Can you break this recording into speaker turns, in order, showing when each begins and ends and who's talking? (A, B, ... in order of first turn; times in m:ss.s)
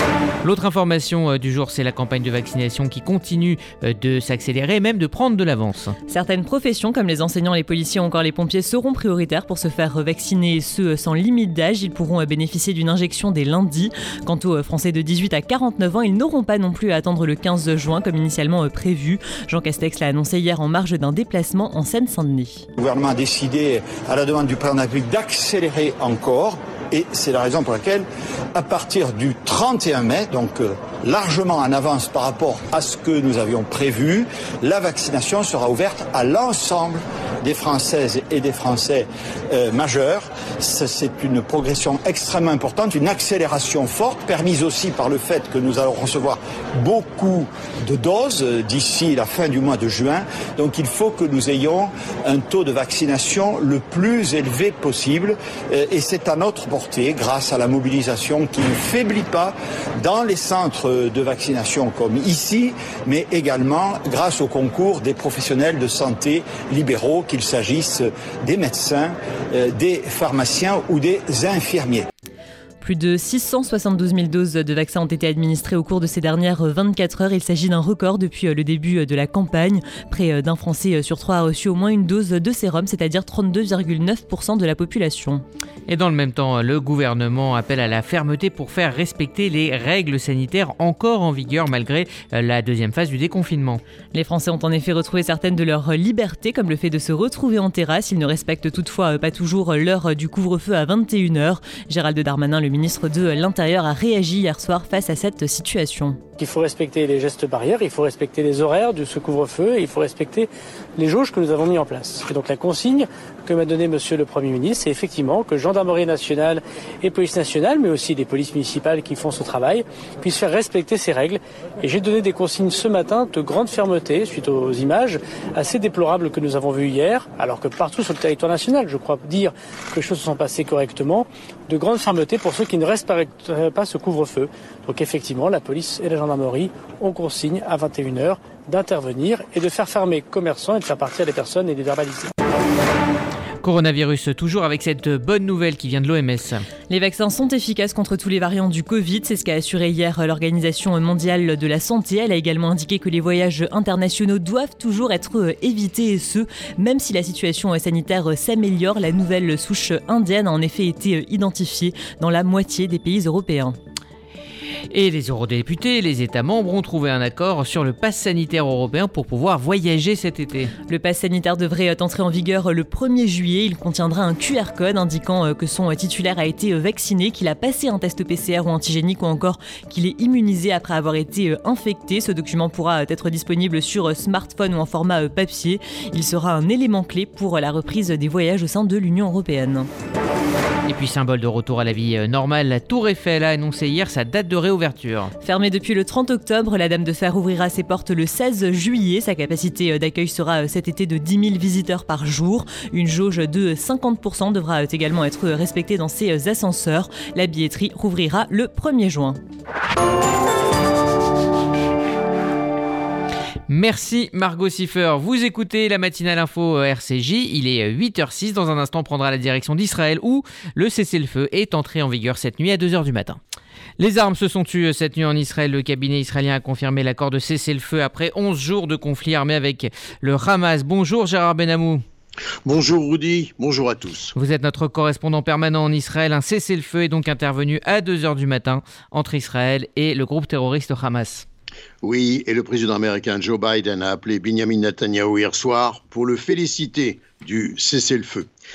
0:00.4-0:06.0 A
0:06.1-0:22.7 B
0:22.8-1:12.1 C
1:12.8-1:25.4 B
1:25.9-1:33.8 A
1:34.1-1:46.2 B
1:46.4-2:22.3 D
2:23.6-2:26.6 A
2:26.9-2:43.8 B
2:44.9-2:50.7 A
2:50.9-3:09.9 B
3:10.9-3:15.3 A
3:15.4-3:29.4 B
3:33.7-3:43.4 A
3:44.0-3:52.0 A
3:52.7-3:54.3 E
3:54.3-4:01.5 A
4:02.0-4:08.5 E